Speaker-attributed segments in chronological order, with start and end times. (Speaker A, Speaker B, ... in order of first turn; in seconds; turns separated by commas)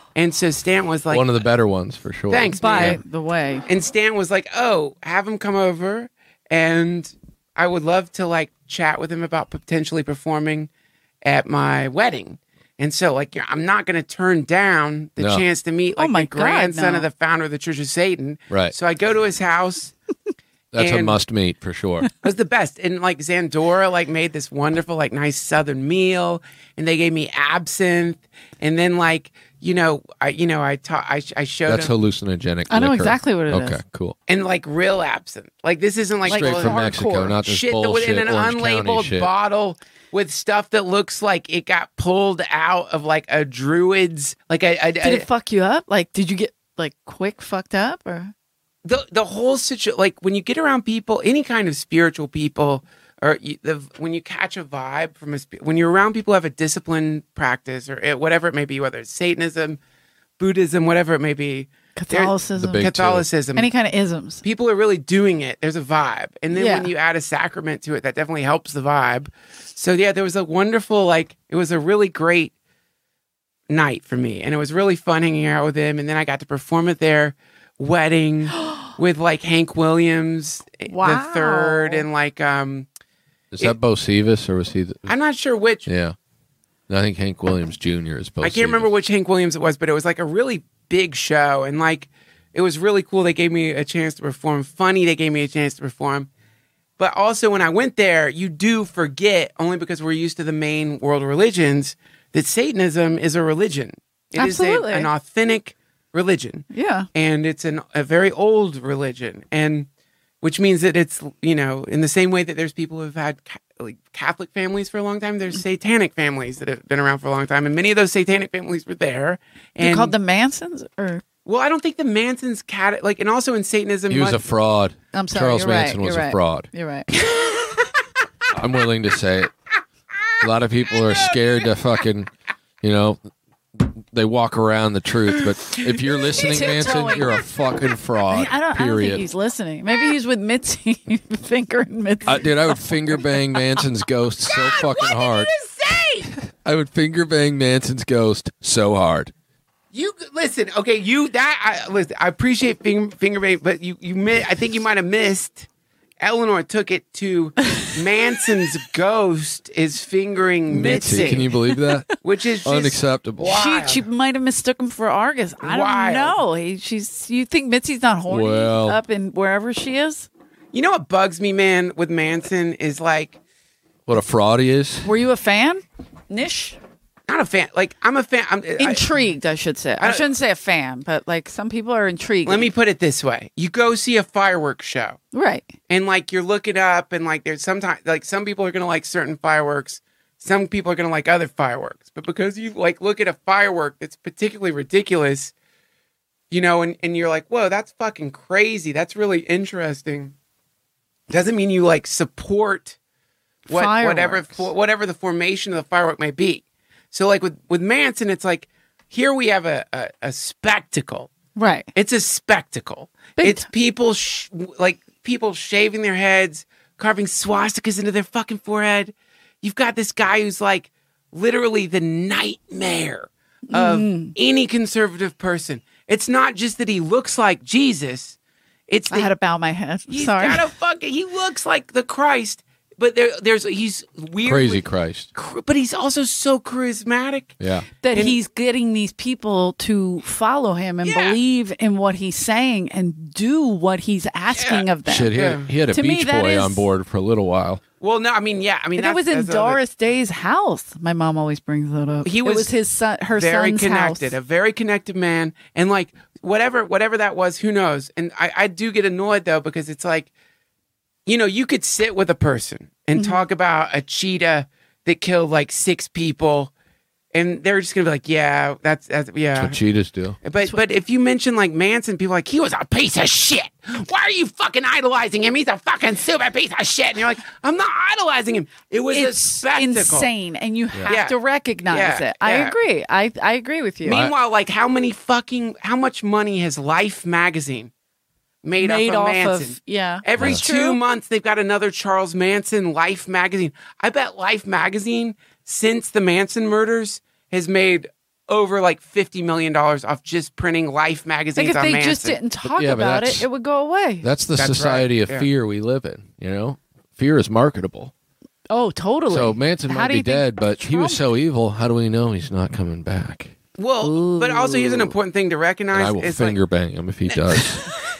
Speaker A: 0.1-1.3, Speaker B: 1.1-3.0, Speaker A: 2.3-3.0, Speaker C: 2.6-3.7, Speaker A: 3.7-10.7, Speaker A: 11.2-19.9, Speaker B: 15.2-15.4, Speaker C: 16.0-17.1, Speaker B: 20.7-22.1, Speaker A: 20.8-21.2, Speaker A: 22.2-31.9, Speaker B: 31.7-34.2, Speaker C: 32.7-33.8, Speaker A: 34.3-45.3, Speaker C: 36.3-37.3, Speaker B: 36.3-39.3, Speaker C: 45.0-48.3, Speaker A: 48.9-59.8, Speaker A: 60.4-63.7, Speaker C: 62.0-62.9, Speaker B: 62.6-63.3, Speaker C: 63.6-64.4, Speaker A: 64.4-72.5, Speaker C: 66.5-66.9, Speaker A: 73.7-82.9, Speaker C: 80.9-82.1, Speaker B: 83.5-85.1, Speaker A: 85.1-85.9, Speaker B: 85.9-86.2, Speaker B: 86.9-88.9, Speaker A: 88.4-96.3, Speaker A: 97.0-109.9, Speaker C: 104.4-105.1, Speaker C: 106.7-107.1, Speaker A: 110.4-120.2, Speaker C: 119.8-121.2, Speaker A: 121.5-124.4, Speaker B: 124.1-126.7, Speaker C: 125.1-127.1, Speaker A: 127.3-127.7, Speaker B: 128.6-129.5, Speaker B: 130.4-132.3, Speaker A: 130.9-131.6, Speaker B: 132.8-133.2, Speaker B: 133.8-139.2, Speaker A: 135.7-137.1, Speaker C: 136.3-137.5, Speaker C: 138.3-143.2, Speaker B: 142.3-145.5, Speaker A: 144.5-146.3, Speaker B: 146.6-149.3, Speaker A: 149.9-155.7, Speaker A: 156.2-161.5, Speaker B: 160.7-162.1, Speaker C: 160.7-162.1, Speaker A: 162.2-164.1, Speaker B: 162.7-163.5, Speaker C: 163.4-170.3, Speaker A: 165.6-166.4, Speaker B: 168.3-169.0, Speaker A: 170.7-173.4, Speaker B: 174.1-175.1, Speaker C: 175.0-176.8, Speaker A: 177.3-179.1, Speaker C: 178.8-182.7, Speaker A: 180.0-180.3, Speaker A: 182.4-185.2, Speaker C: 185.3-185.7, Speaker A: 185.9-195.5, Speaker A: 196.5-200.3, Speaker A: 201.3-203.0, Speaker C: 203.7-204.7, Speaker A: 203.7-211.3, Speaker C: 211.6-211.9, Speaker A: 211.9-228.4, Speaker C: 213.4-213.7, Speaker C: 223.7-224.3, Speaker A: 228.9-229.3, Speaker C: 229.1-230.7, Speaker A: 230.1-237.5, Speaker B: 234.4-235.3, Speaker B: 237.6-237.9, Speaker C: 238.0-245.3, Speaker A: 238.1-238.4, Speaker A: 241.0-241.4, Speaker A: 244.5-245.7, Speaker B: 245.1-247.8, Speaker C: 245.9-246.8, Speaker A: 248.0-249.8, Speaker C: 249.0-254.4, Speaker A: 252.2-252.7, Speaker A: 253.3-260.3, Speaker A: 261.3-266.7, Speaker C: 263.2-263.5, Speaker A: 267.3-269.8, Speaker B: 269.6-270.4, Speaker A: 270.4-280.3, Speaker C: 279.1-284.3, Speaker A: 281.1-282.8, Speaker A: 284.0-287.9, Speaker A: 288.6-302.4, Speaker C: 288.8-291.0, Speaker C: 301.6-304.3, Speaker B: 302.6-303.5, Speaker B: 304.2-308.1, Speaker A: 304.6-305.5, Speaker C: 308.7-311.2, Speaker B: 309.3-313.5, Speaker A: 313.8-316.6, Speaker C: 314.0-315.1, Speaker B: 315.9-317.9, Speaker A: 317.3-317.9